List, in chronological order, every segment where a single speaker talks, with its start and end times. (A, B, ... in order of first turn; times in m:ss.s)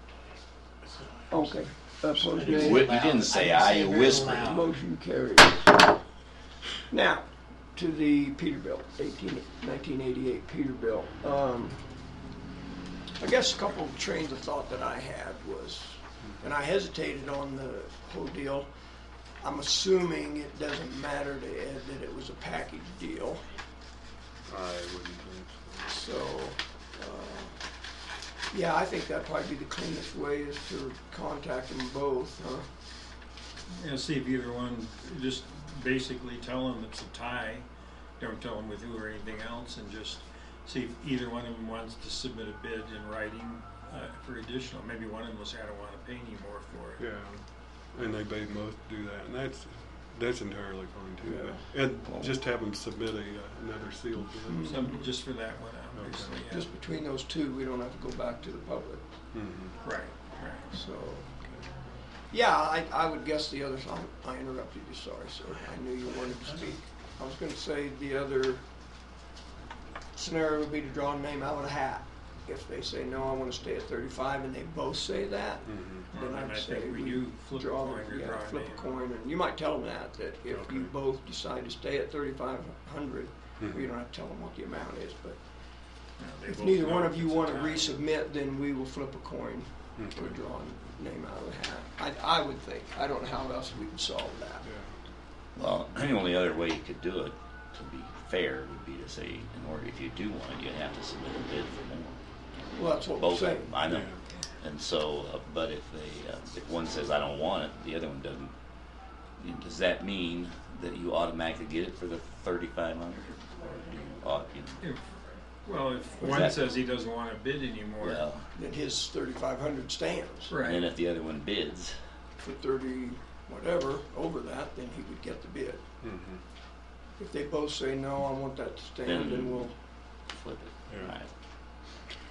0:00.8-0:04.7 A
0:01.3-0:02.9 B
0:02.4-0:04.6 C
0:02.9-0:04.6 D
0:03.9-0:05.8 B
0:06.9-0:11.8 B
0:13.2-0:18.7 B
0:19.4-0:23.4 B
0:24.5-0:26.0 E
0:25.9-0:27.6 B
0:28.5-0:32.7 B
0:33.7-0:37.7 D
0:38.2-0:47.0 D
0:47.0-0:47.4 E
0:47.9-0:55.0 E
0:51.2-0:52.3 B
0:54.4-0:55.0 B
0:54.6-0:56.7 D
0:55.9-0:56.4 E
0:56.5-0:59.1 B
0:59.3-0:59.8 E
0:59.8-1:00.7 D
1:00.7-1:01.4 B
1:01.4-1:01.7 E
1:02.3-1:08.6 B
1:05.5-1:06.8 A
1:10.2-1:25.4 B
1:15.6-1:16.1 E
1:16.1-1:19.0 D
1:20.5-1:20.9 E
1:23.6-1:23.9 E
1:26.2-1:28.0 D
1:26.5-1:34.7 B
1:30.0-1:30.4 E
1:34.6-1:34.9 E
1:35.6-1:42.2 C
1:42.7-1:43.8 B
1:43.2-1:48.6 C
1:43.9-1:44.2 E
1:49.4-1:54.8 C
1:54.8-1:55.0 D
1:55.6-1:58.2 D
1:56.2-1:56.7 C
1:58.0-1:58.5 C
1:58.6-2:00.5 B
2:00.5-2:00.8 D
2:00.6-2:02.0 C
2:02.4-2:05.8 B
2:06.0-2:06.4 E
2:07.2-2:09.7 B
2:09.0-2:09.7 C
2:10.3-2:11.3 C
2:10.9-2:11.2 E